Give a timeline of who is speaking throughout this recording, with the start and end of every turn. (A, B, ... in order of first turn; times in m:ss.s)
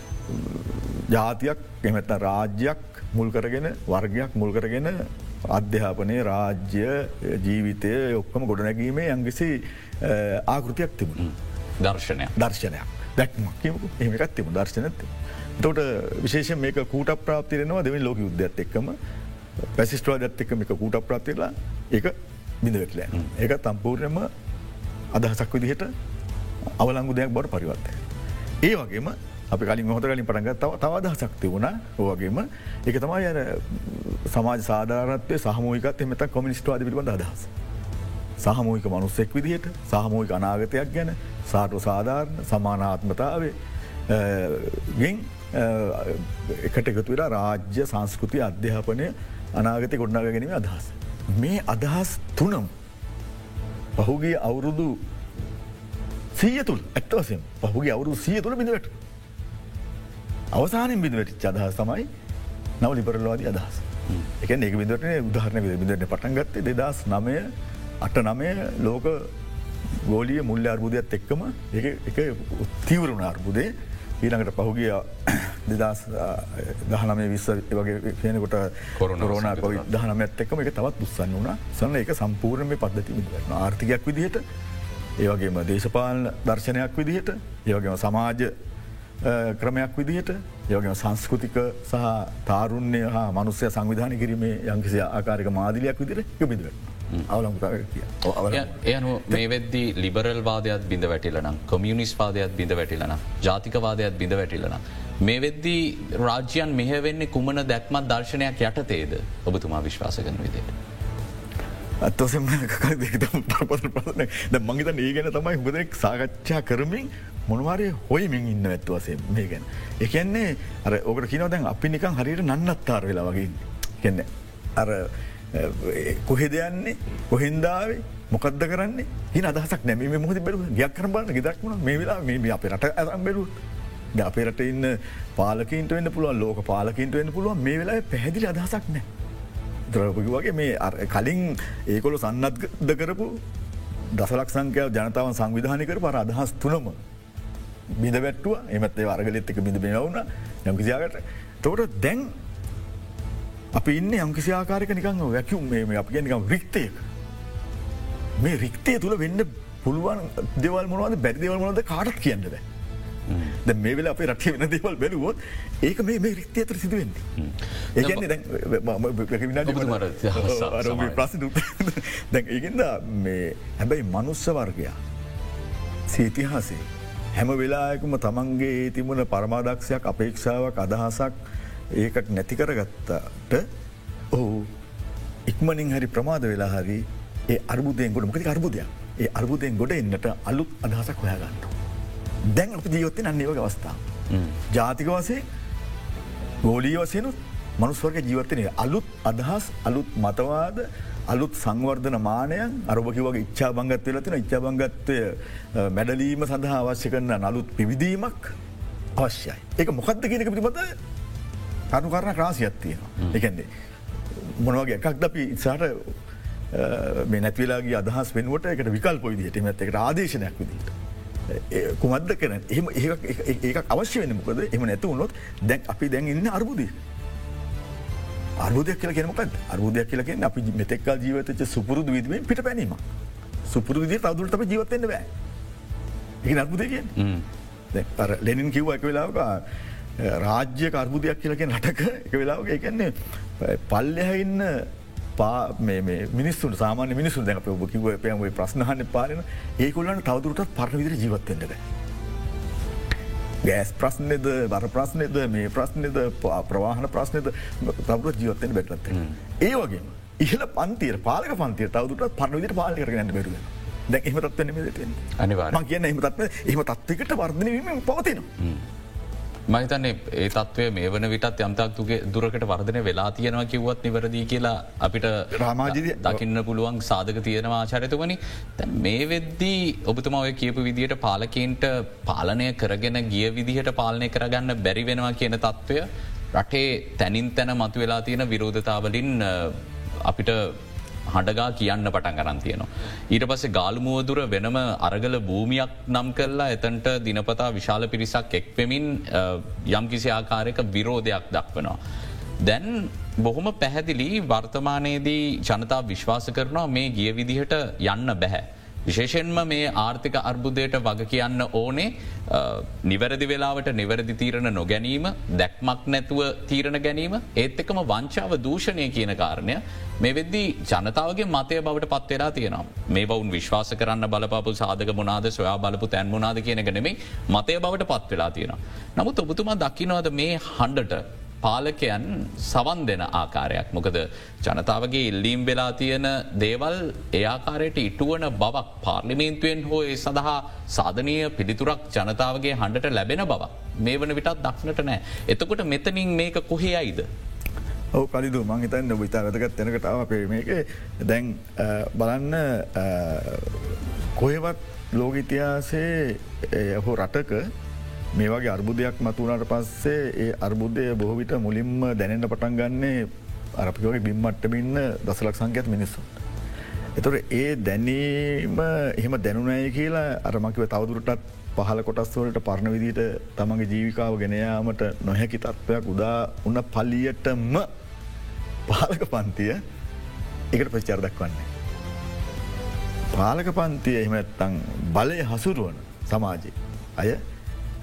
0:00.3-0:11.3 A
0:11.2-0:12.4 B
0:12.4-0:19.0 A
0:19.8-0:24.3 A
0:25.1-0:25.9 A
0:26.8-0:28.0 A
0:28.6-0:37.5 A
0:38.4-0:43.6 A
0:44.1-0:52.7 A
0:54.0-0:55.0 A
0:56.4-0:59.0 A
1:00.5-1:02.1 A
1:02.8-1:07.5 A
1:08.0-1:09.3 A
1:10.0-1:13.7 A
1:14.2-1:24.4 A
1:19.0-1:20.0 B
1:25.2-1:28.5 A
1:29.2-1:38.8 A
1:38.5-1:50.7 B
1:52.0-2:13.5 A
2:14.1-2:19.1 A
2:19.9-2:23.4 A
2:24.1-2:27.0 A
2:28.0-2:32.3 A
2:33.8-2:37.0 A
2:38.4-2:42.6 A
2:43.3-2:43.6 B
2:43.5-2:47.3 A
2:47.4-2:48.2 B
2:48.0-2:55.0 A
2:49.6-2:51.2 B
2:56.1-3:01.4 A
3:01.9-3:03.7 A
3:04.3-3:04.7 A
3:05.5-3:11.8 A
3:12.5-3:14.0 A
3:14.3-3:14.6 B
3:14.7-3:15.4 A
3:16.6-3:28.6 A
3:29.2-3:30.9 A
3:31.9-3:33.7 A
3:34.4-3:36.1 A
3:36.7-3:41.0 A
3:41.5-3:47.0 A
3:48.6-3:53.0 A
3:53.7-3:55.3 A
3:56.4-3:57.2 A
3:57.2-3:57.4 B
3:57.9-3:59.6 A
4:00.2-4:11.8 A
4:13.6-4:28.5 A
4:25.4-4:25.8 B
4:29.7-5:02.0 B
4:35.5-4:36.4 A
5:02.6-5:47.3 B
5:48.1-5:57.7 A
5:58.3-6:06.4 A
6:07.2-6:17.9 A
6:18.9-6:19.8 A
6:20.7-6:21.7 A
6:23.3-6:27.4 A